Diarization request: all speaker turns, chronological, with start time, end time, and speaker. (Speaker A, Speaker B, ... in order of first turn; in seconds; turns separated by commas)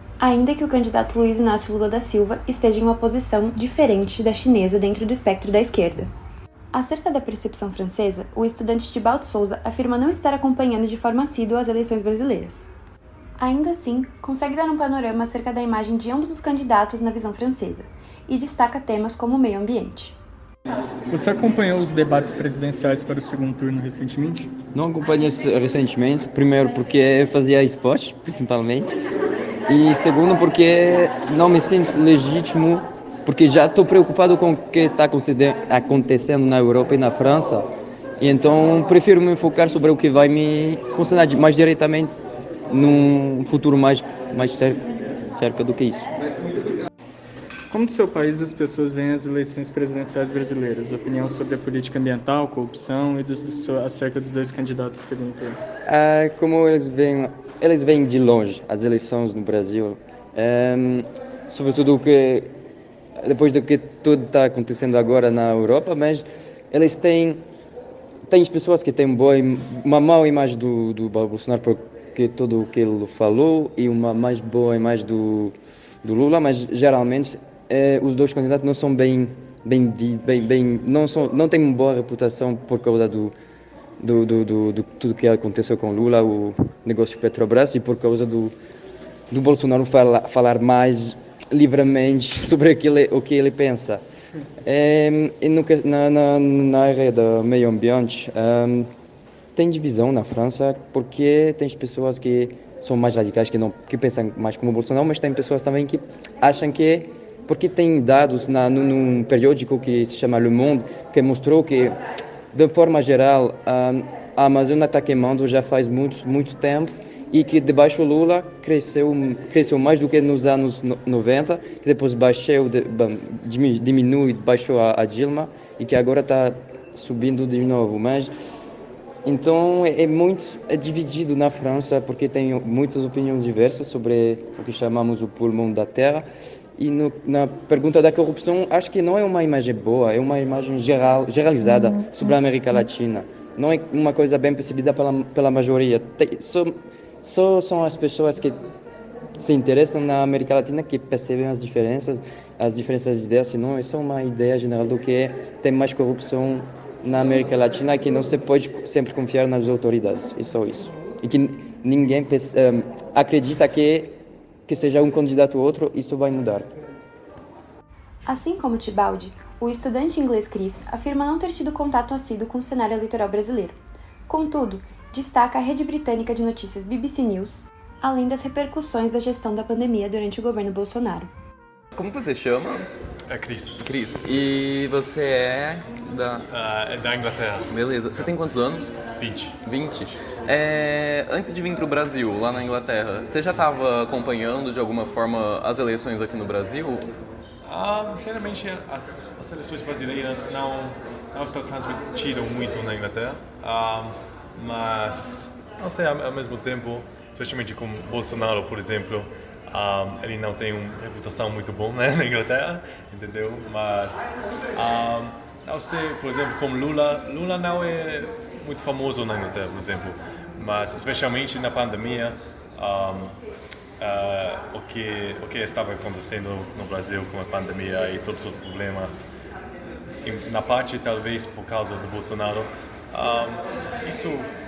Speaker A: 0.2-6.1, Speaker A: 6.7-12.7, Speaker A: 13.4-20.1, Speaker B: 21.1-24.5, Speaker C: 24.7-28.9, Speaker C: 29.7-37.6, Speaker C: 38.2-42.1, Speaker C: 42.7-46.1, Speaker B: 47.7-55.6, Speaker C: 55.9-62.5, Speaker C: 63.2-67.4, Speaker C: 68.3-83.3, Speaker C: 84.0-88.5, Speaker C: 89.3-94.0, Speaker C: 94.6-98.9, Speaker C: 99.5-111.9, Speaker C: 112.5-128.3, Speaker C: 129.2-136.2, Speaker C: 136.8-148.6, Speaker C: 149.4-164.1, Speaker C: 164.7-166.7, Speaker A: 168.3-181.3, Speaker D: 181.9-182.9, Speaker E: 183.3-183.8, Speaker D: 183.8-186.5, Speaker E: 186.2-188.4, Speaker D: 187.7-189.1, Speaker E: 189.2-189.6, Speaker D: 189.6-197.1, Speaker E: 197.6-223.3, Speaker E: 224.0-229.3, Speaker E: 230.2-234.5